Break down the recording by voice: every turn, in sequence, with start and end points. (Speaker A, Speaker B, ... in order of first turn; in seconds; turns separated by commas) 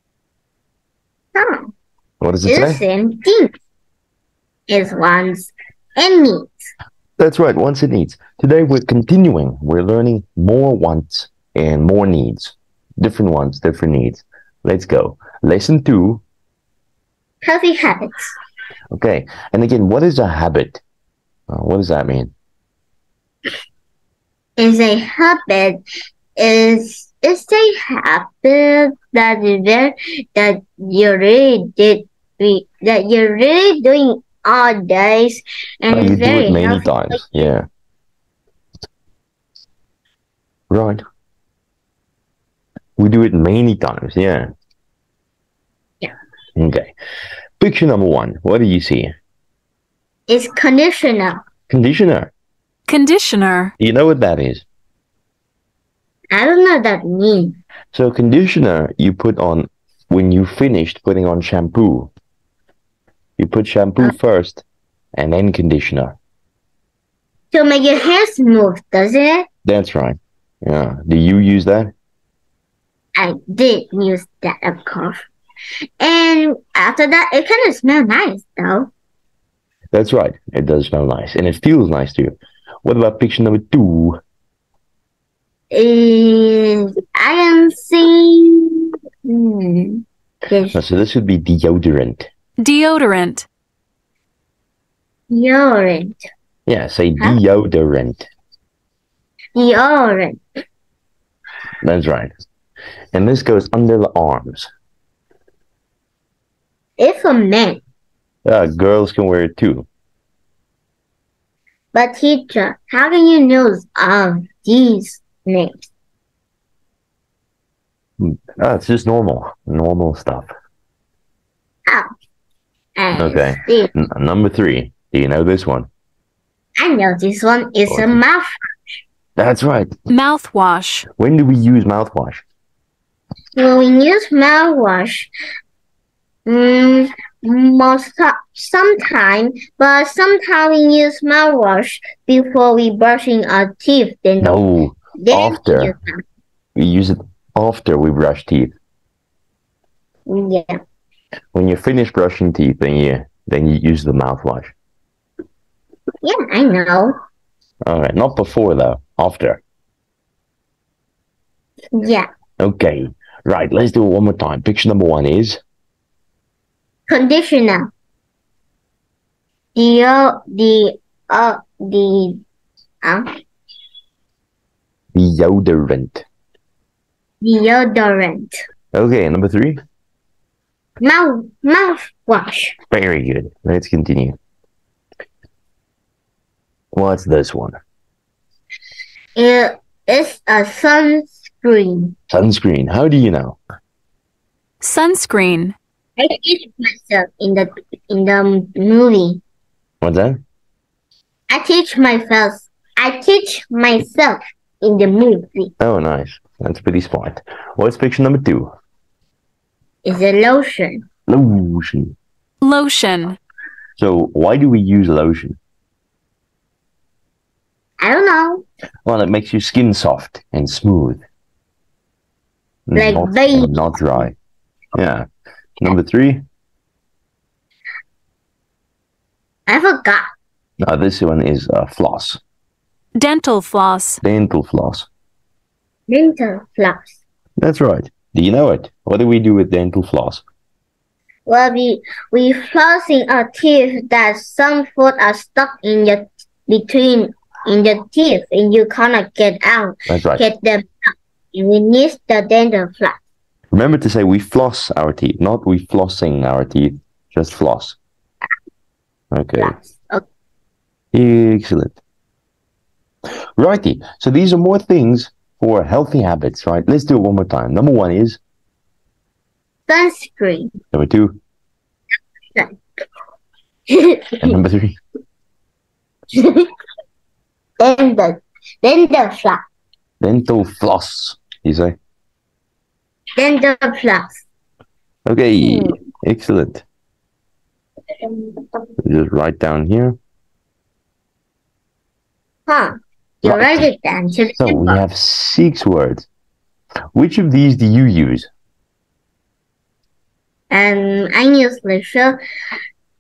Speaker A: 1.4-1.7, Speaker B: 2.2-2.8, Speaker A: 2.5-3.5, Speaker A: 4.7-6.7, Speaker B: 7.2-16.2, Speaker A: 17.4-18.4, Speaker B: 18.9-20.8, Speaker B: 21.5-22.3, Speaker A: 24.6-25.8, Speaker A: 26.4-37.2, Speaker B: 35.9-37.7, Speaker B: 40.7-41.0, Speaker B: 43.0-44.5, Speaker B: 46.6-46.9, Speaker B: 47.6-49.1, Speaker A: 50.3-51.4, Speaker B: 51.7-52.3, Speaker C: 52.9-53.7, Speaker B: 53.8-54.6, Speaker A: 56.3-57.6, Speaker B: 57.9-62.1, Speaker B: 63.4-64.6, Speaker B: 65.2-66.2, Speaker A: 67.5-69.5, Speaker B: 69.7-71.9, Speaker A: 73.2-75.3, Speaker A: 76.0-78.9, Speaker B: 79.9-84.2, Speaker A: 85.7-90.8, Speaker B: 90.7-92.3, Speaker C: 92.6-93.5, Speaker A: 95.3-96.2, Speaker B: 96.7-98.3, Speaker A: 99.6-100.4, Speaker B: 101.8-102.3, Speaker B: 103.1-104.7, Speaker A: 107.0-107.8, Speaker B: 108.5-109.9, Speaker A: 111.9-115.9, Speaker B: 118.2-120.5, Speaker A: 123.0-123.9, Speaker B: 123.2-125.9, Speaker A: 126.8-129.0, Speaker B: 127.9-128.2, Speaker B: 129.4-129.9, Speaker C: 130.1-131.1, Speaker B: 131.2-132.4, Speaker A: 133.6-135.3, Speaker A: 136.5-144.6, Speaker B: 144.4-145.9, Speaker A: 145.2-146.2, Speaker B: 146.8-148.7, Speaker A: 150.3-150.8, Speaker B: 151.5-154.7, Speaker A: 156.2-157.2, Speaker B: 157.8-159.6, Speaker A: 161.9-162.3, Speaker B: 162.6-165.6, Speaker A: 167.1-167.9, Speaker A: 169.8-172.4, Speaker A: 173.0-173.4, Speaker B: 175.1-176.2, Speaker A: 177.4-178.6, Speaker B: 178.9-179.8, Speaker A: 181.0-182.8, Speaker B: 182.9-184.4, Speaker B: 186.9-187.8, Speaker A: 189.4-192.2, Speaker B: 192.3-193.6, Speaker C: 194.8-195.8, Speaker A: 196.2-199.4, Speaker B: 200.0-200.4, Speaker A: 201.5-205.7, Speaker B: 205.8-208.7, Speaker A: 210.0-211.1, Speaker B: 211.3-212.2, Speaker C: 212.6-213.4, Speaker B: 214.0-215.6, Speaker A: 218.0-218.7, Speaker B: 219.1-221.2, Speaker B: 222.9-224.4, Speaker A: 222.9-224.2, Speaker B: 224.9-225.3, Speaker B: 225.8-226.4, Speaker A: 229.7-230.2, Speaker B: 230.8-232.4, Speaker C: 233.2-234.2, Speaker B: 234.2-235.1, Speaker A: 236.1-237.2, Speaker B: 237.6-240.4, Speaker A: 241.5-253.2, Speaker B: 250.1-250.4, Speaker B: 253.7-258.0, Speaker B: 259.3-259.8, Speaker A: 259.6-260.2, Speaker B: 261.1-262.0, Speaker B: 263.6-268.4, Speaker A: 269.9-270.7, Speaker B: 270.9-271.4, Speaker A: 272.5-273.0, Speaker A: 273.9-274.6, Speaker B: 274.4-275.0, Speaker A: 276.3-276.7, Speaker A: 277.8-279.6, Speaker B: 280.2-282.0, Speaker A: 283.4-284.4, Speaker B: 285.3-286.8, Speaker A: 285.6-285.9, Speaker A: 288.2-288.8, Speaker B: 289.0-290.2, Speaker A: 292.7-295.0, Speaker B: 293.4-293.9, Speaker B: 294.6-296.3, Speaker B: 297.1-298.5, Speaker A: 300.7-302.4